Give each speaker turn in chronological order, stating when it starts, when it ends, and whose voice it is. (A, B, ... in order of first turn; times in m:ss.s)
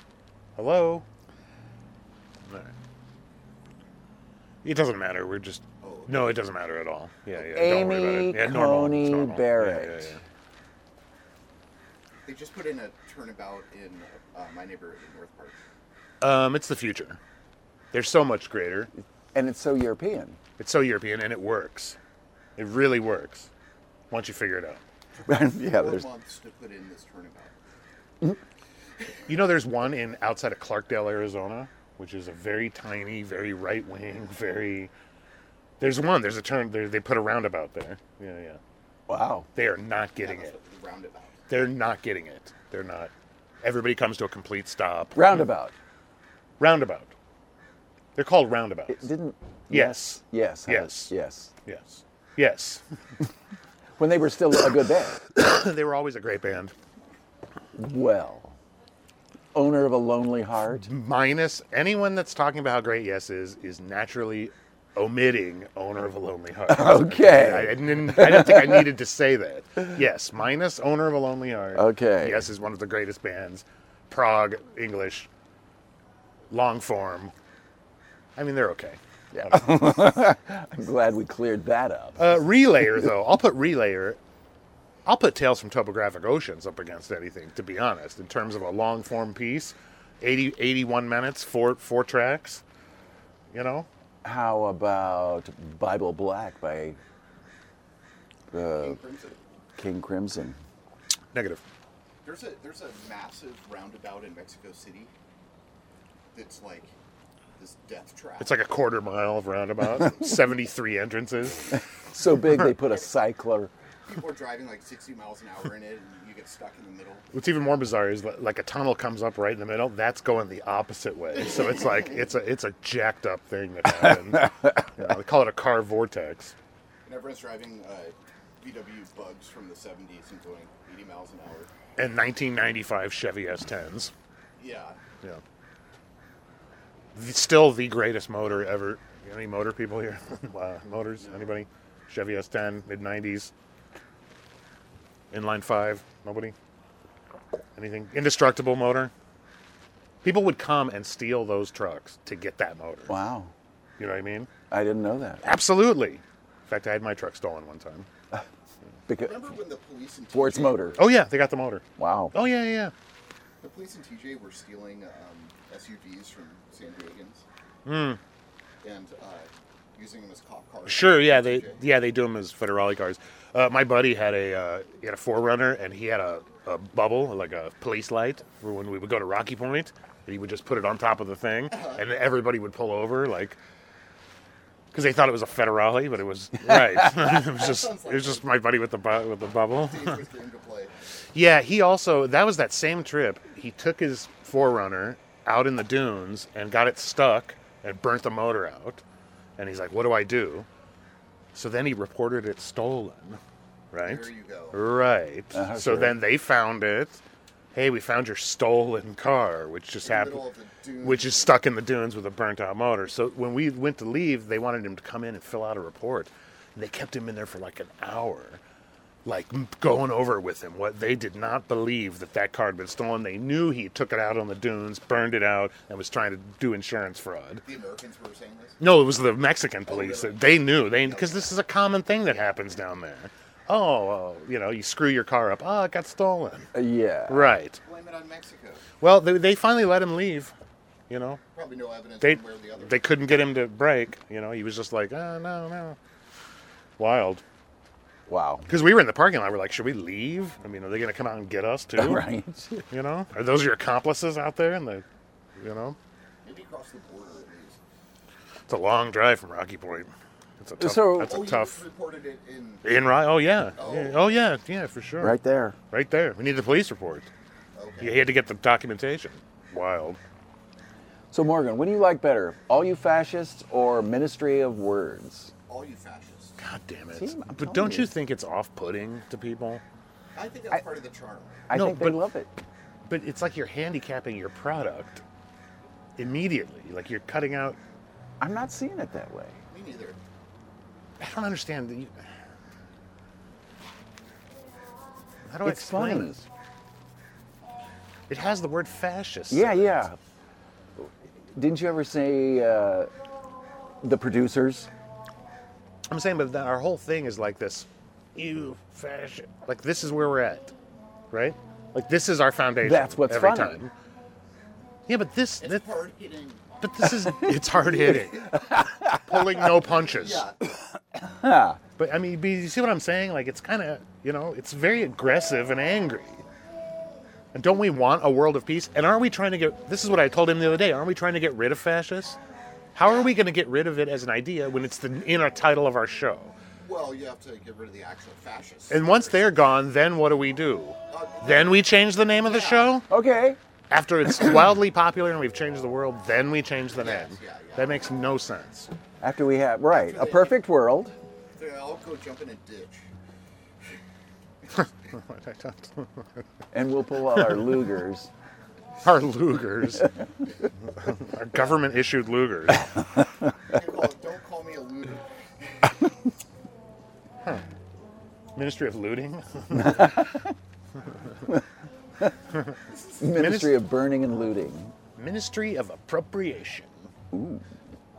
0:00.6-0:01.0 A
0:02.5-0:02.7 A
0:04.6-0:10.2 A
0:05.8-0:06.3 B
0:07.5-0:10.2 C
0:12.2-0:15.6 B
0:16.2-0:17.2 A
0:17.9-0:18.9 A
0:19.3-0:20.4 C
0:20.6-0:22.0 A
0:22.6-0:23.5 A
0:24.1-0:24.8 A
0:25.3-0:26.1 C
0:25.3-0:27.6 B
0:29.3-0:34.9 A
0:35.8-0:38.6 A
0:39.1-0:39.5 C
0:39.6-0:40.6 A
0:40.2-0:41.5 B
0:41.5-0:45.5 A
0:45.2-0:45.8 C
0:46.6-0:47.1 A
0:48.2-0:49.1 A
0:48.9-0:51.5 C
0:49.7-0:51.1 A
0:51.7-0:52.8 A
0:54.0-0:55.2 C
0:55.4-0:56.7 A
0:57.8-0:58.6 C
0:59.5-1:00.9 C
1:00.8-1:15.3 A
1:06.7-1:08.9 C
1:11.8-1:12.5 C
1:16.5-1:17.3 A
1:18.4-1:19.7 A
1:19.3-1:22.4 C
1:22.2-1:24.2 A
1:25.1-1:32.6 A
1:33.5-1:33.9 A
1:34.2-1:37.0 C
1:38.5-1:39.0 C
1:38.8-1:39.4 B
1:39.8-1:40.6 C
1:41.3-1:41.6 A
1:42.2-1:45.1 B
1:46.3-1:46.9 B
1:47.6-1:48.6 B
1:48.4-1:51.8 A
1:51.7-1:53.7 C
1:54.1-1:57.2 B
1:57.3-2:06.5 A
2:04.1-2:04.7 C
2:07.1-2:11.7 B
2:12.0-2:14.1 A
2:14.6-2:15.0 B
2:17.2-2:23.5 A
2:21.2-2:21.6 B
2:25.3-2:26.5 A
2:27.8-2:29.1 A
2:30.2-2:33.2 A
2:33.1-2:33.5 C
2:34.0-2:34.5 A
2:34.7-2:35.4 C
2:35.4-2:38.1 A
2:39.1-2:39.5 C
2:39.2-2:41.0 B
2:40.3-2:41.0 C
2:41.0-2:42.9 A
2:42.0-2:42.3 C
2:43.6-2:47.4 B
2:47.9-2:48.2 A
2:48.8-2:51.8 B
2:50.9-3:03.6 A
3:01.7-3:02.0 B
3:04.9-3:10.2 A
3:07.2-3:08.5 B
3:09.8-3:10.9 B
3:11.4-3:19.0 A
3:19.6-3:20.7 A
3:21.5-3:23.4 A
3:23.9-3:27.2 A
3:24.0-3:24.8 B
3:25.5-3:26.2 C
3:27.7-3:30.4 A
3:30.0-3:31.6 B
3:31.0-3:38.6 A
3:39.2-3:47.6 A
3:47.6-3:48.8 B
3:48.8-3:56.7 A
3:49.9-3:51.5 B
3:56.7-3:57.5 C
3:57.3-3:57.8 A
3:57.8-3:58.9 B
3:59.0-4:00.5 A
4:01.1-4:01.4 A
4:01.5-4:03.0 B
4:02.2-4:06.0 A
4:07.0-4:07.4 A
4:08.3-4:08.7 C
4:08.7-4:12.2 A
4:12.0-4:12.9 C
4:12.9-4:15.0 A
4:15.6-4:16.0 A
4:16.4-4:17.8 B
4:18.7-4:21.8 A
4:20.8-4:21.4 C
4:21.1-4:22.8 B
4:22.8-4:25.4 A
4:23.8-4:24.2 B
4:25.2-4:25.8 C
4:25.9-4:27.3 A
4:27.8-4:28.2 B
4:28.0-4:30.2 A
4:31.3-4:35.5 C
4:35.7-4:36.6 B
4:36.6-4:39.8 A
4:37.2-4:38.1 C
4:40.4-4:41.7 B
4:41.7-4:42.5 C
4:41.7-4:42.2 A
4:43.1-4:45.2 A
4:46.2-4:47.8 A
4:48.4-4:49.6 C
4:49.7-4:50.2 B
4:51.2-4:52.2 A
4:55.5-4:56.3 A
4:55.6-4:56.4 C
4:58.3-5:00.1 A
4:59.5-5:00.2 C
5:01.0-5:03.1 C
5:04.0-5:04.9 C
5:06.1-5:10.7 A
5:11.3-5:13.9 A
5:12.8-5:13.8 C
5:15.1-5:15.9 A
5:15.6-5:16.7 B
5:16.8-5:20.5 A
5:17.3-5:19.5 C
5:20.1-5:20.6 B
5:21.1-5:21.8 C
5:22.0-5:26.4 A
5:27.5-5:32.4 A
5:33.0-5:36.6 A
5:33.0-5:33.3 B
5:36.8-5:39.5 B
5:38.9-5:43.1 A
5:41.1-5:41.8 B
5:42.4-5:42.9 B
5:43.1-5:43.6 C
5:43.9-5:48.9 A
5:47.0-5:48.0 B
5:49.2-5:51.2 C
5:49.9-5:50.6 B
5:51.6-5:53.1 B
5:54.7-5:56.4 A
5:56.7-5:58.3 C
5:57.3-5:57.8 A
5:59.0-6:00.1 A
6:01.0-6:02.9 A
6:03.7-6:05.3 B
6:08.6-6:10.4 A
6:09.7-6:10.5 C
6:12.9-6:13.2 B
6:13.2-6:14.9 C
6:13.3-6:13.8 A
6:15.2-6:17.1 A
6:17.3-6:17.6 C